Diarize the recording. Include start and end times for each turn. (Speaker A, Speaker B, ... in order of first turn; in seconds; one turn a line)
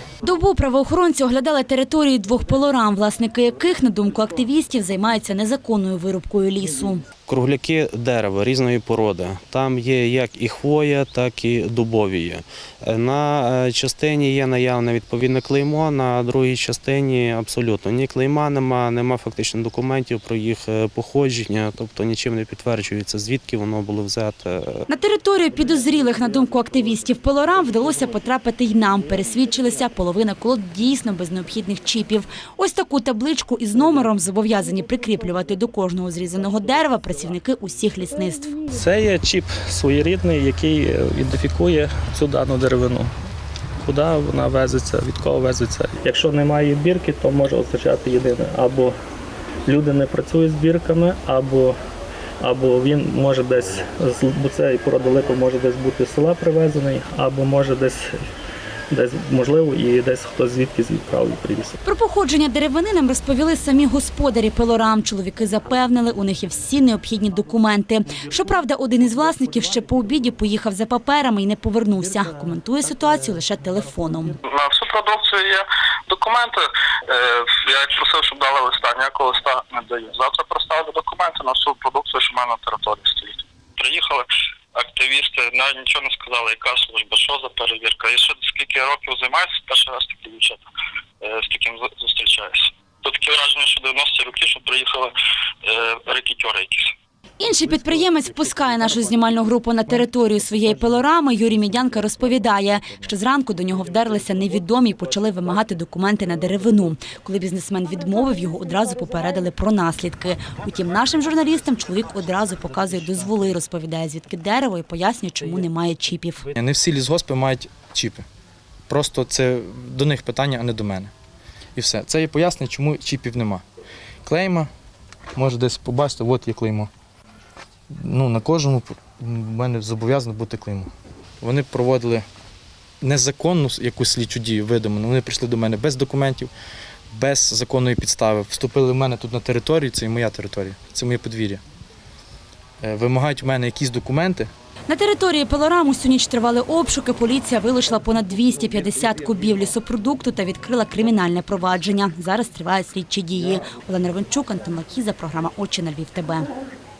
Speaker A: 0.2-7.0
Speaker B: 7.3-24.8
Speaker A: 24.9-38.5
Speaker C: 38.7-43.1
Speaker C: 43.8-49.0
Speaker C: 49.7-51.8
Speaker C: 52.4-58.2
Speaker C: 58.9-61.8
Speaker A: 61.8-74.3
Speaker D: 74.5-90.6
Speaker D: 91.2-95.1
Speaker D: 95.6-96.9
Speaker A: 97.4-116.5
Speaker E: 116.5-118.2
Speaker E: 118.9-121.1
Speaker E: 121.8-123.6
Speaker E: 124.2-124.7
Speaker E: 125.3-126.9
Speaker E: 128.0-130.9
Speaker E: 131.4-132.2
Speaker E: 133.0-136.5
Speaker E: 137.1-141.6
Speaker E: 142.8-144.5
Speaker A: 144.9-156.5